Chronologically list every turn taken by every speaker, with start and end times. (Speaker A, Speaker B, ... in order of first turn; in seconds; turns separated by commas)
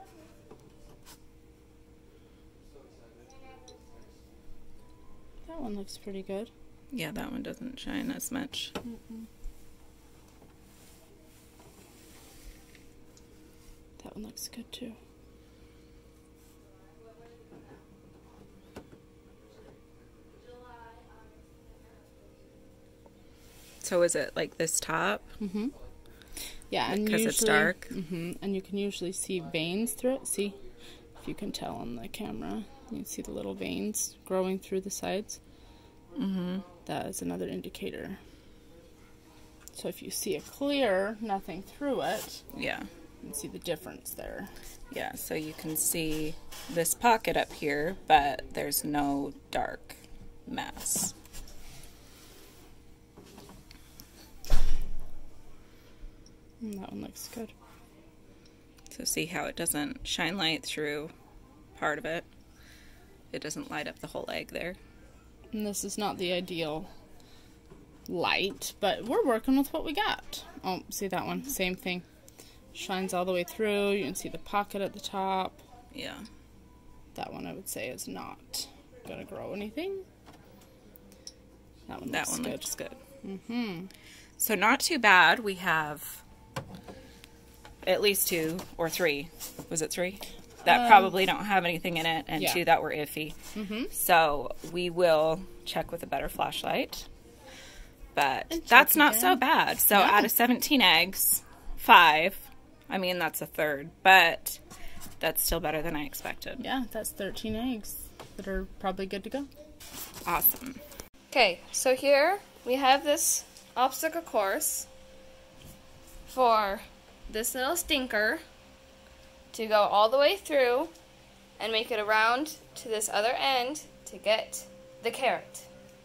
Speaker A: 5.5-6.5, Speaker B: 6.9-8.7, Speaker A: 14.0-15.0, Speaker B: 23.8-25.3, Speaker A: 25.4-25.7, Speaker A: 26.7-30.6, Speaker B: 26.9-27.9, Speaker A: 31.2-35.4, Speaker B: 36.1-36.7, Speaker A: 36.8-38.2, Speaker A: 39.8-42.4, Speaker B: 42.5-42.9, Speaker A: 43.2-44.5, Speaker B: 44.9-51.1, Speaker A: 56.6-57.5, Speaker B: 58.9-61.1, Speaker B: 61.8-62.3, Speaker B: 63.3-64.8, Speaker A: 65.5-66.9, Speaker A: 68.1-72.1, Speaker A: 72.7-75.6, Speaker B: 75.9-76.3, Speaker A: 77.1-80.1, Speaker A: 81.9-82.7, Speaker B: 82.1-83.0, Speaker A: 83.2-83.9, Speaker B: 84.4-86.2, Speaker B: 87.8-93.4, Speaker A: 90.7-91.1, Speaker A: 92.4-92.6, Speaker A: 93.5-93.9, Speaker B: 93.9-97.1, Speaker B: 98.2-104.6, Speaker A: 98.5-100.3, Speaker B: 105.2-106.6, Speaker A: 106.6-109.5, Speaker B: 110.2-110.8, Speaker C: 111.3-114.9, Speaker C: 116.3-118.4, Speaker C: 119.5-120.9, Speaker C: 121.6-125.7